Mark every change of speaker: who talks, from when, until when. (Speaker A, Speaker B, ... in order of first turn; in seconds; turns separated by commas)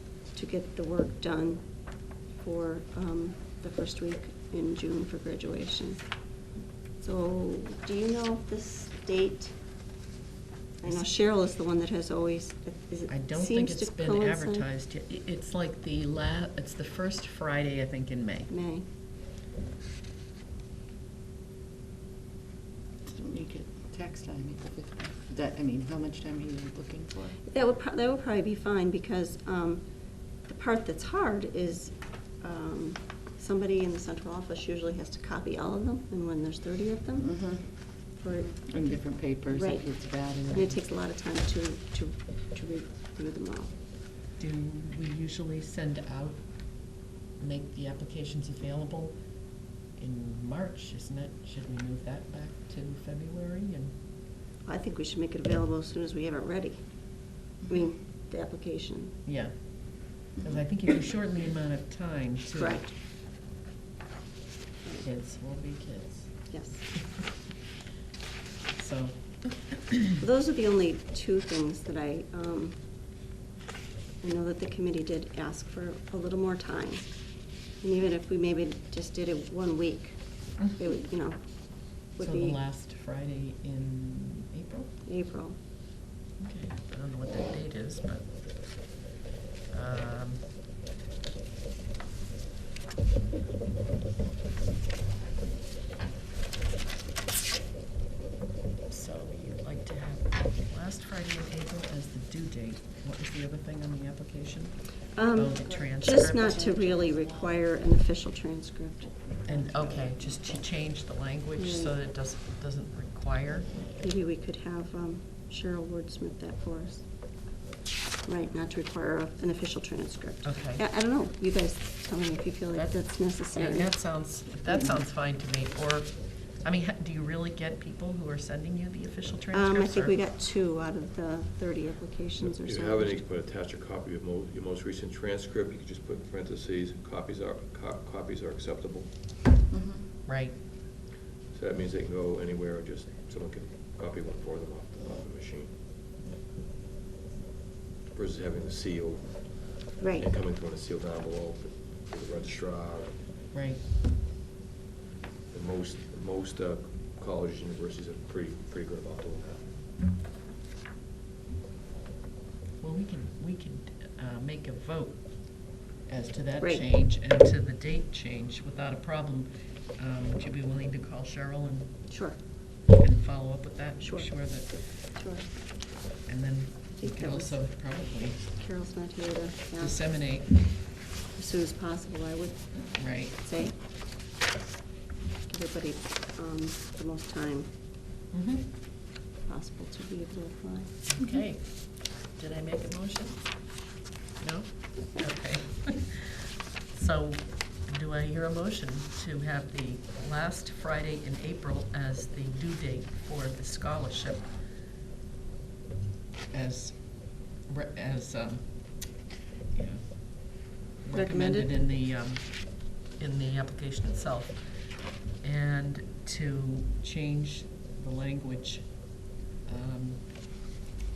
Speaker A: 0.3-6.0, Speaker A: 7.0-9.6, Speaker A: 10.8-14.7, Speaker B: 13.1-18.5, Speaker A: 18.5-18.9, Speaker C: 23.0-27.4, Speaker A: 27.4-38.6, Speaker C: 37.2-40.8, Speaker A: 39.5-43.7, Speaker B: 44.4-49.3, Speaker B: 50.0-53.9, Speaker A: 54.6-59.1, Speaker B: 59.2-62.9, Speaker A: 62.5-62.9, Speaker B: 65.0-66.7, Speaker A: 66.5-66.9, Speaker B: 68.7-69.8, Speaker A: 70.2-72.8, Speaker A: 74.2-82.6, Speaker B: 82.2-85.0, Speaker A: 85.0-85.5, Speaker B: 86.4-89.0, Speaker B: 89.7-90.5, Speaker B: 98.9-106.6, Speaker A: 105.1-109.2, Speaker C: 105.5-107.6, Speaker C: 109.2-110.5, Speaker B: 109.5-113.8, Speaker A: 111.5-111.9, Speaker A: 114.0-117.1, Speaker A: 118.2-123.9, Speaker B: 120.4-120.8, Speaker B: 122.7-130.2, Speaker A: 129.5-133.2, Speaker D: 132.4-139.2, Speaker C: 139.7-140.1, Speaker B: 140.2-140.6, Speaker D: 141.5-145.7, Speaker D: 148.1-153.2, Speaker A: 150.0-150.3, Speaker B: 153.5-153.8, Speaker D: 155.5-159.8, Speaker B: 162.8-172.1, Speaker A: 166.6-166.8, Speaker A: 172.1-172.4, Speaker B: 173.0-175.0, Speaker A: 174.0-175.5, Speaker B: 176.2-178.4, Speaker A: 177.0-177.8, Speaker A: 178.4-183.8, Speaker B: 179.8-180.5, Speaker B: 182.9-183.3, Speaker A: 185.5-187.7, Speaker B: 188.3-188.7, Speaker A: 189.4-190.9, Speaker B: 191.1-193.8, Speaker B: 194.4-196.3, Speaker B: 196.9-204.6, Speaker B: 206.5-209.2, Speaker B: 209.7-220.6, Speaker A: 211.1-211.7